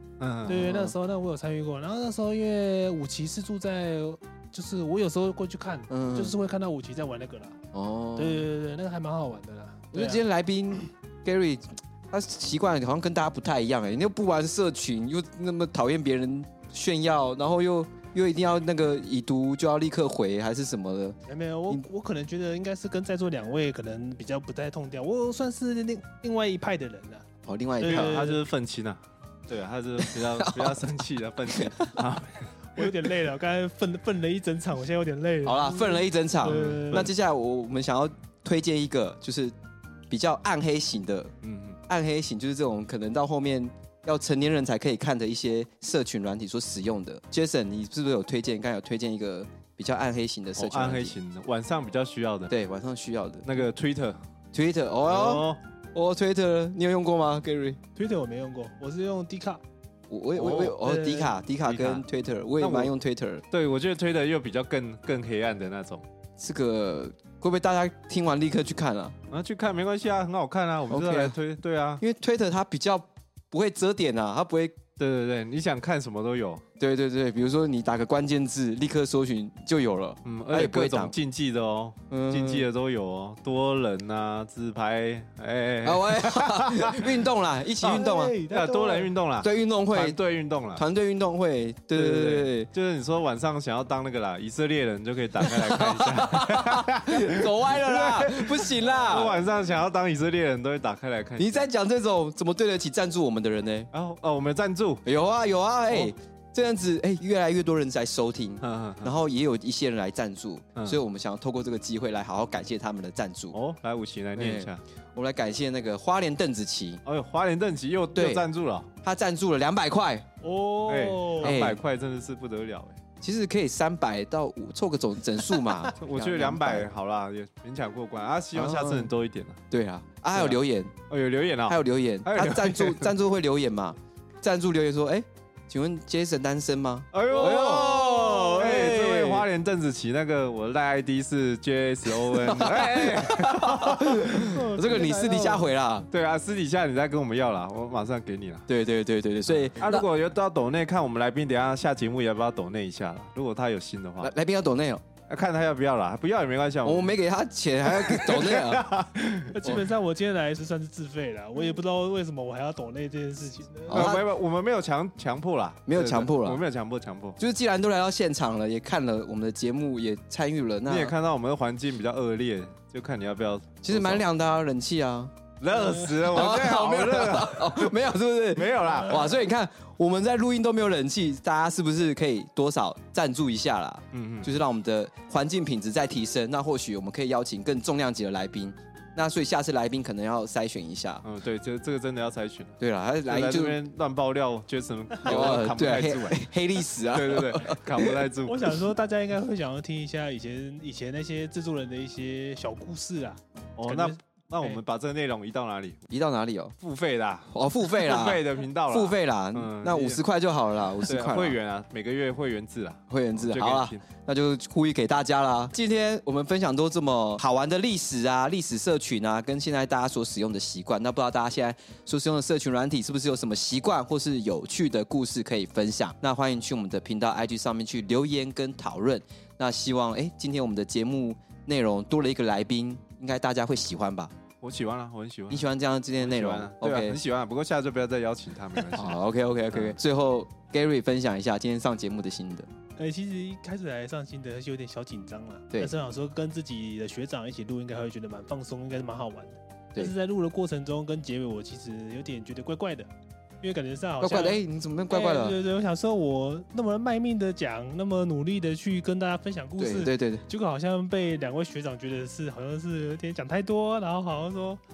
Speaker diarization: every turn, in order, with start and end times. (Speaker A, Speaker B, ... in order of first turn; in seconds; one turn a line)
Speaker A: 0.2-0.7
Speaker B: 0.5-7.6
Speaker C: 0.6-0.9
Speaker C: 5.9-6.3
Speaker C: 7.7-8.5
Speaker B: 8.2-10.2
Speaker C: 9.9-21.2
Speaker B: 21.3-27.3
Speaker C: 27.5-28.2
Speaker B: 27.8-28.4
Speaker A: 27.8-32.9
Speaker C: 30.0-32.0
Speaker B: 32.8-37.1
Speaker C: 35.4-39.6
Speaker A: 36.4-37.1
Speaker C: 40.1-41.3
Speaker A: 41.4-41.8
Speaker C: 41.9-51.2
Speaker A: 50.6-52.5
Speaker C: 52.5-53.5
Speaker A: 53.4-54.2
Speaker C: 54.5-57.8
Speaker A: 55.1-55.6
Speaker B: 58.0-59.6
Speaker C: 60.1-63.4
Speaker A: 60.4-60.9
Speaker B: 60.8-61.3
Speaker A: 61.6-62.0
Speaker A: 62.6-62.9
Speaker A: 63.5-66.0
Speaker C: 66.4-69.2
Speaker A: 69.3-72.0
Speaker C: 70.9-71.4
Speaker C: 72.0-74.8
Speaker A: 75.0-76.6
Speaker C: 76.8-81.2
Speaker A: 80.2-87.2
Speaker C: 82.1-82.7
Speaker C: 85.8-88.4
Speaker B: 87.8-89.1
Speaker A: 88.5-90.8
Speaker C: 89.4-90.2
Speaker C: 90.8-92.7
Speaker A: 91.9-101.7
Speaker C: 95.4-99.4
Speaker C: 101.4-103.9
Speaker A: 103.9-105.0
Speaker C: 105.1-113.6
Speaker A: 108.6-109.1
Speaker A: 113.5-114.8
Speaker C: 114.3-117.0
Speaker A: 117.1-118.9
Speaker C: 118.2-118.5
Speaker C: 119.0-120.3
Speaker B: 120.4-121.6
Speaker A: 120.9-123.0
Speaker C: 121.4-121.8
Speaker C: 123.2-126.9
Speaker A: 126.0-129.6
Speaker C: 128.5-129.1
Speaker C: 129.7-131.0
Speaker A: 130.3-133.1
Speaker C: 131.7-139.5
Speaker A: 137.1-144.5
Speaker C: 142.1-146.1
Speaker B: 144.0-145.7
Speaker A: 146.1-148.7
Speaker C: 148.7-150.1
Speaker A: 149.5-154.3
Speaker C: 154.2-155.1
Speaker A: 155.3-157.2
Speaker C: 156.8-158.9
Speaker A: 157.9-159.6
Speaker B: 159.5-164.2
Speaker C: 163.9-164.3
Speaker A: 163.9-167.4
Speaker C: 165.9-166.6
Speaker C: 167.4-171.1
Speaker A: 170.9-174.2
Speaker C: 173.8-175.3
Speaker A: 175.6-178.0
Speaker B: 175.7-176.2
Speaker C: 176.3-191.2
Speaker A: 178.5-179.4
Speaker A: 184.1-184.5
Speaker A: 191.2-198.8
Speaker C: 192.8-193.8
Speaker C: 195.2-198.2
Speaker B: 198.0-204.8
Speaker A: 203.8-206.0
Speaker C: 206.1-206.7
Speaker A: 206.8-210.2
Speaker C: 207.5-211.6
Speaker A: 211.1-214.0
Speaker C: 213.1-234.3
Speaker A: 234.6-240.0
Speaker C: 235.5-237.2
Speaker C: 238.9-242.7
Speaker B: 243.0-253.1
Speaker B: 253.6-264.8
Speaker C: 254.2-255.6
Speaker C: 259.8-260.4